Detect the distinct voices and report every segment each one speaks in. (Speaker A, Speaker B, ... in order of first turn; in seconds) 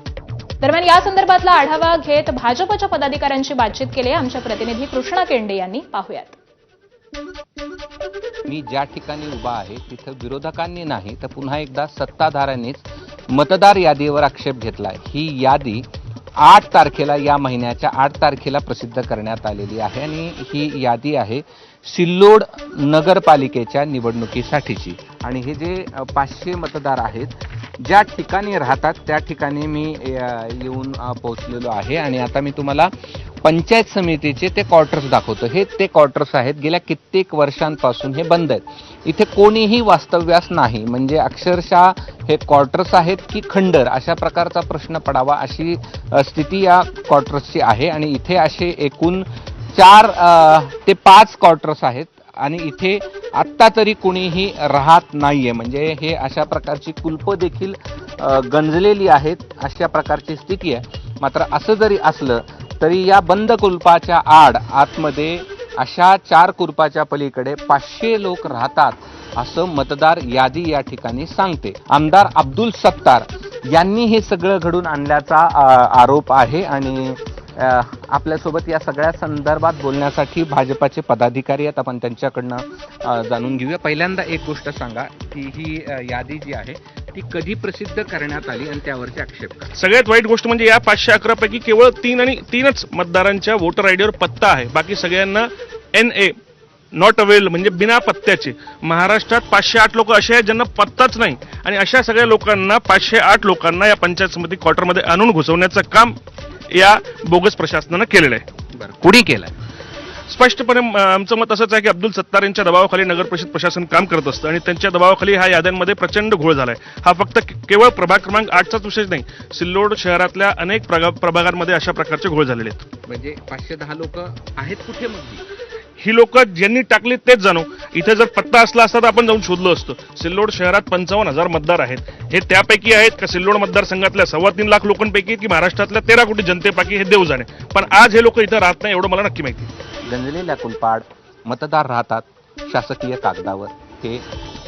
Speaker A: 0.6-6.3
Speaker B: 8.5-15.8, 16.4-32.9, 33.4-89.7, 108.7-109.6, 123.0-125.4, 140.0-144.2
Speaker C: 89.8-96.3, 96.9-106.2, 106.7-108.4, 110.3-122.9, 126.0-139.7